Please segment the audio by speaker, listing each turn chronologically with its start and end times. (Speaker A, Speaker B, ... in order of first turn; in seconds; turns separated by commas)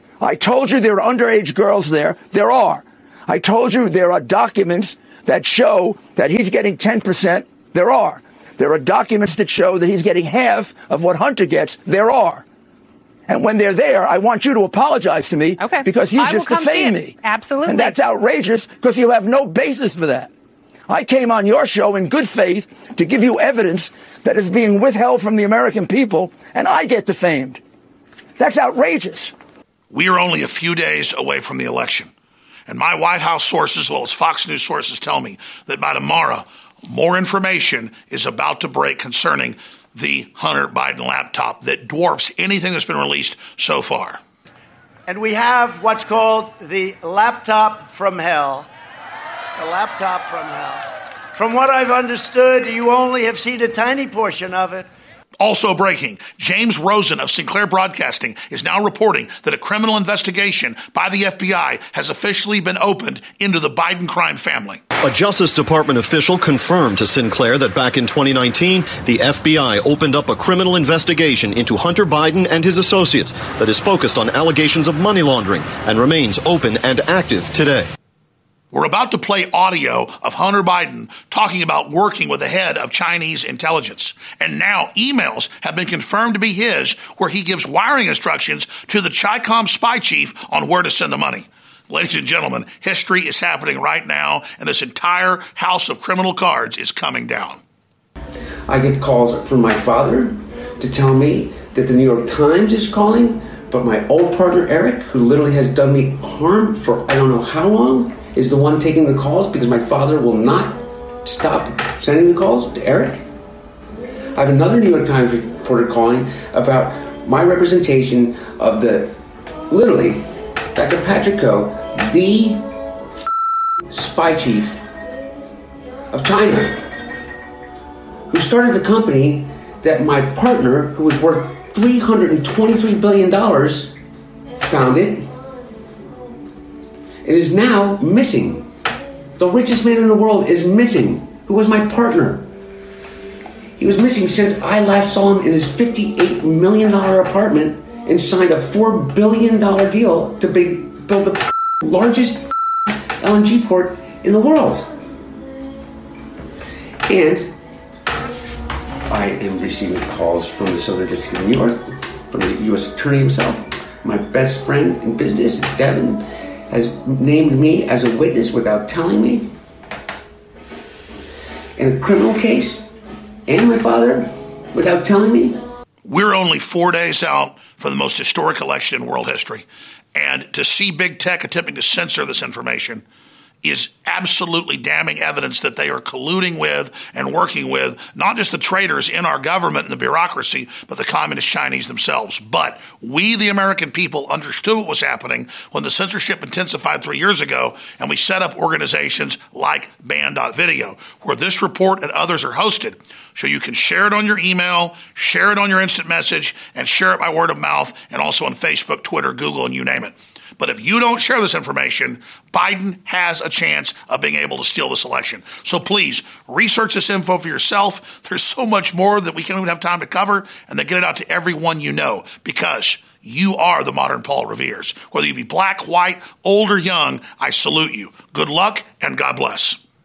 Speaker A: 0.2-12.4, Speaker A: 13.3-20.3, Speaker B: 15.6-18.0, Speaker A: 20.9-27.6, Speaker A: 28.4-29.3, Speaker C: 29.9-32.1, Speaker C: 32.7-44.2, Speaker D: 45.1-48.7, Speaker D: 49.6-54.9, Speaker C: 55.4-64.8, Speaker E: 65.1-77.9, Speaker C: 78.7-97.6, Speaker B: 98.7-113.2, Speaker B: 114.4-119.1, Speaker B: 119.7-120.2, Speaker B: 120.8-122.6, Speaker B: 123.9-124.8, Speaker B: 126.1-126.8, Speaker B: 128.3-133.9, Speaker B: 134.7-135.2, Speaker B: 137.2-138.7, Speaker B: 139.4-142.4, Speaker B: 143.8-152.4, Speaker B: 153.2-154.9, Speaker B: 157.1-157.5, Speaker B: 159.1-169.5, Speaker B: 171.8-172.8, Speaker B: 173.5-175.6, Speaker C: 176.1-183.0, Speaker C: 183.6-229.8